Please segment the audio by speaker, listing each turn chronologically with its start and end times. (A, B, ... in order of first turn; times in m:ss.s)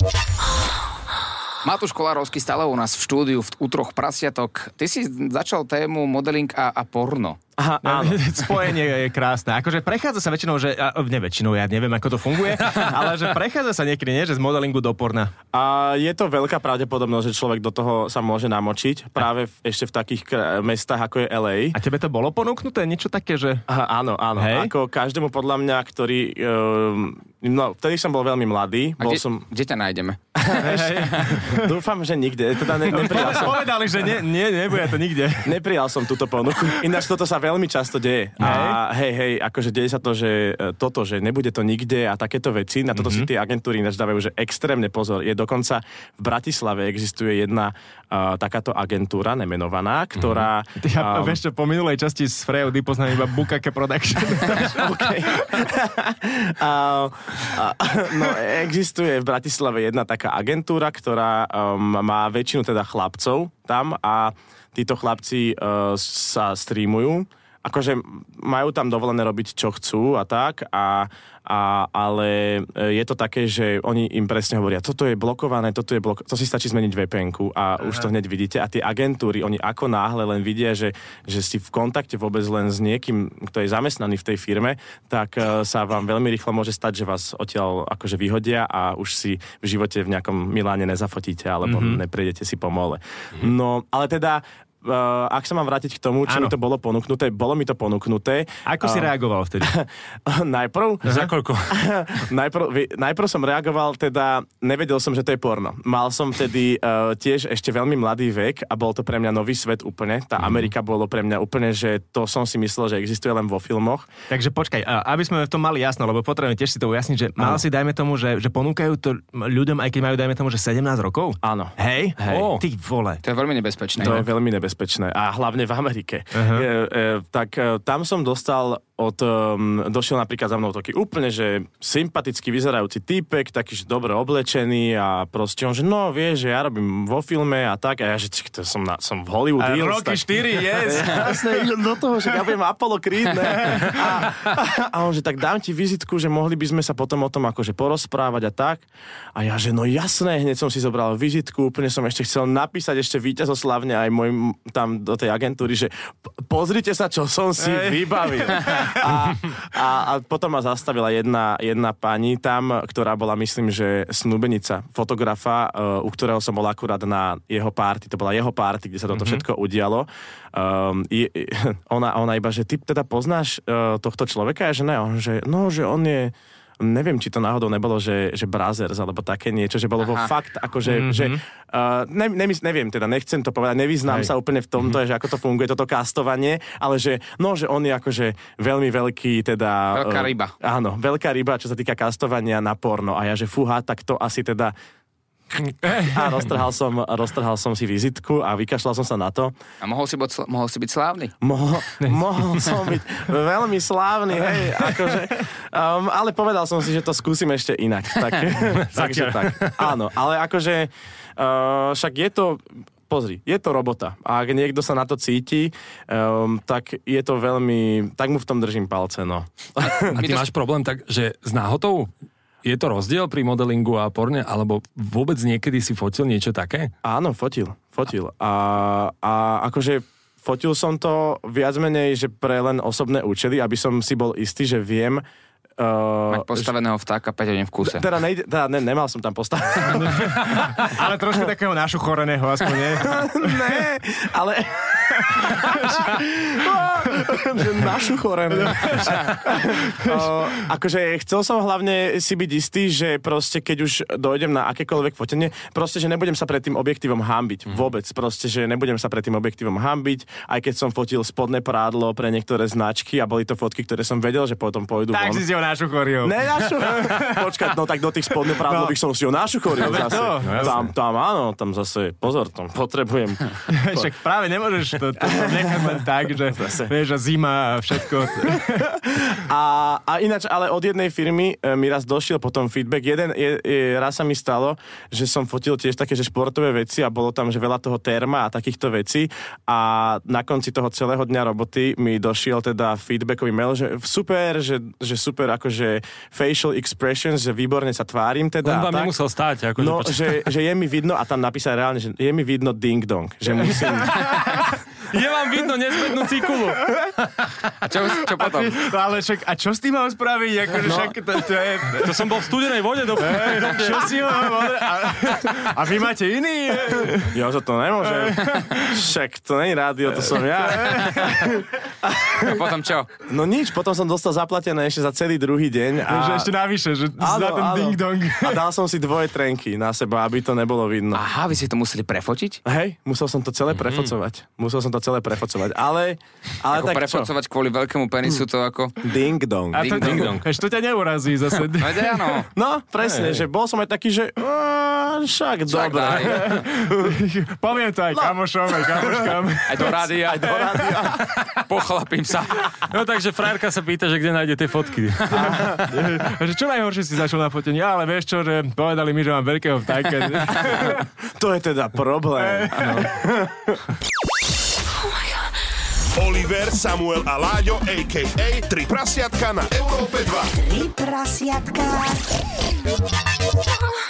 0:01.6-0:07.4 A
0:07.6-0:08.2 B
0:07.8-0:15.3 C
0:15.5-0:21.8 B
0:21.7-0:23.6 C
0:23.7-0:29.4 B
0:24.4-0:24.7 C
0:29.0-0:30.2 A
0:30.4-0:33.7 B
0:30.5-0:31.7 C
0:32.9-0:35.5 C
0:35.4-0:51.4 B
0:38.4-0:38.8 C
0:43.0-0:43.3 C
0:50.2-0:50.4 D
0:50.8-0:55.1 C
0:54.5-1:54.1 B
1:31.6-1:32.0 C
1:36.3-1:36.5 C
1:38.6-1:39.7 C
1:41.0-1:41.8 D
1:54.3-2:03.2 C
1:57.4-1:57.6 B
2:01.4-2:02.5 B
2:02.3-2:02.6 D
2:03.2-2:04.2 A
2:04.0-3:14.7 B
2:06.3-2:06.6 C
2:19.6-2:21.7 C
2:23.5-2:24.0 C
2:37.6-2:39.2 C
3:00.0-3:00.3 A
3:00.8-3:01.4 C
3:09.9-3:10.5 A
3:15.5-3:19.5 B
3:15.8-3:16.2 C
3:19.8-3:21.3 A
3:21.4-3:40.2 B
3:22.0-3:22.6 C
3:28.8-3:29.9 D
3:40.0-3:42.1 D
3:40.2-3:40.4 A
3:42.6-3:46.9 D
3:47.0-3:55.2 B
3:55.8-3:56.7 B
3:56.3-3:58.0 A
3:57.8-4:00.5 B
3:59.9-4:03.6 C
4:02.9-4:25.4 B
4:05.3-4:06.0 C
4:08.5-4:10.4 C
4:25.1-4:27.5 C
4:26.2-4:34.1 B
4:28.6-4:28.9 C
4:29.8-4:30.8 C
4:30.4-4:30.8 D
4:33.7-4:38.9 C
4:35.2-4:36.9 B
4:38.5-4:59.1 B
4:58.6-5:00.4 D
4:59.8-5:04.3 B
5:04.0-5:04.4 C
5:04.5-5:07.5 D
5:06.8-5:07.1 C
5:07.8-5:08.8 A
5:08.2-5:12.4 C
5:10.8-5:11.1 B
5:12.0-5:14.2 D
5:13.2-5:17.3 C
5:17.2-5:22.6 B
5:18.1-5:19.0 C
5:20.6-5:21.5 C
5:22.4-5:23.2 A
5:23.2-5:26.5 B
5:26.1-5:28.6 C
5:27.2-5:31.2 B
5:31.1-5:32.6 A
5:32.6-5:37.3 B
5:36.7-5:39.0 A
5:39.0-5:40.4 B
5:39.7-5:42.4 C
5:39.8-5:40.3 A
5:40.0-5:40.4 D
5:41.7-5:42.5 A
5:42.5-5:47.2 B
5:43.0-5:43.4 C
5:45.7-5:46.6 A
5:46.2-5:50.0 C
5:48.1-5:51.3 B
5:49.7-5:50.7 A
5:51.7-5:52.7 A
5:52.8-5:55.9 D
5:55.3-5:55.8 B
5:55.5-6:01.0 C
6:00.6-6:03.8 B
6:02.4-6:03.2 C
6:06.1-6:10.8 E